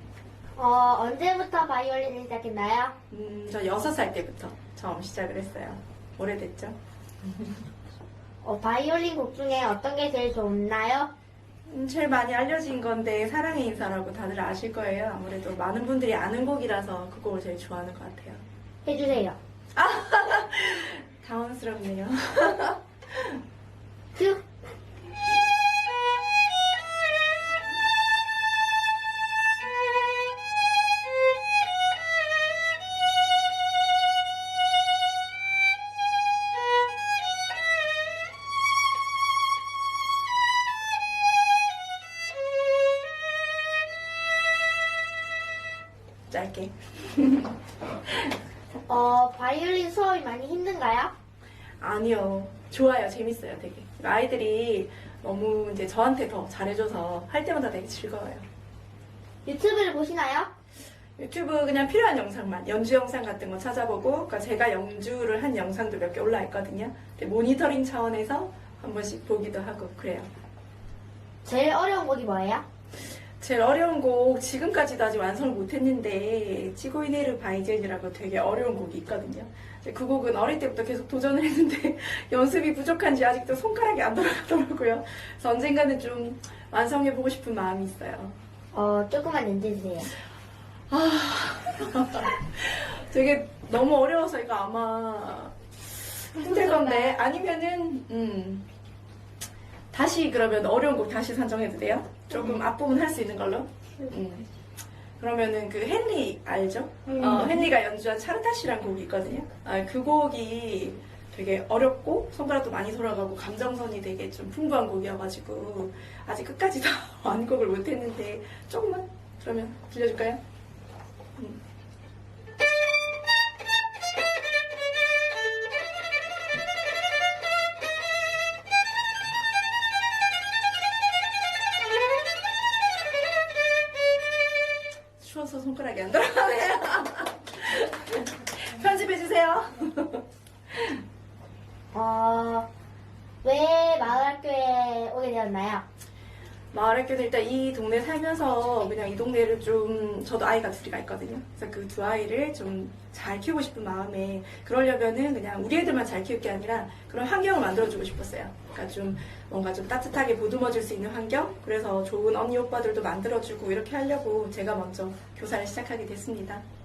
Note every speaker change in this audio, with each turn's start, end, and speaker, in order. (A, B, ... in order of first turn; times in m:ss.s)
0:00.5-0:02.9 A
0:03.1-0:06.8 B
0:08.4-0:11.1 A
0:11.7-0:18.4 B
0:18.8-0:19.4 A
0:19.7-0:23.4 B
0:24.1-0:24.4 A
0:46.3-0:47.6 B
0:48.9-0:51.1 A
0:51.8-0:58.4 B
0:59.4-1:00.5 A
1:01.2-1:10.3 B
1:11.4-1:12.6 A
1:13.4-1:28.4 B
1:28.7-1:30.1 A
1:30.9-1:38.6 B
1:39.9-1:44.5 B
1:45.2-2:00.4 B
2:15.2-2:20.9 B
2:21.9-2:22.7 A
2:23.4-2:25.8 A
2:26.7-2:46.6 B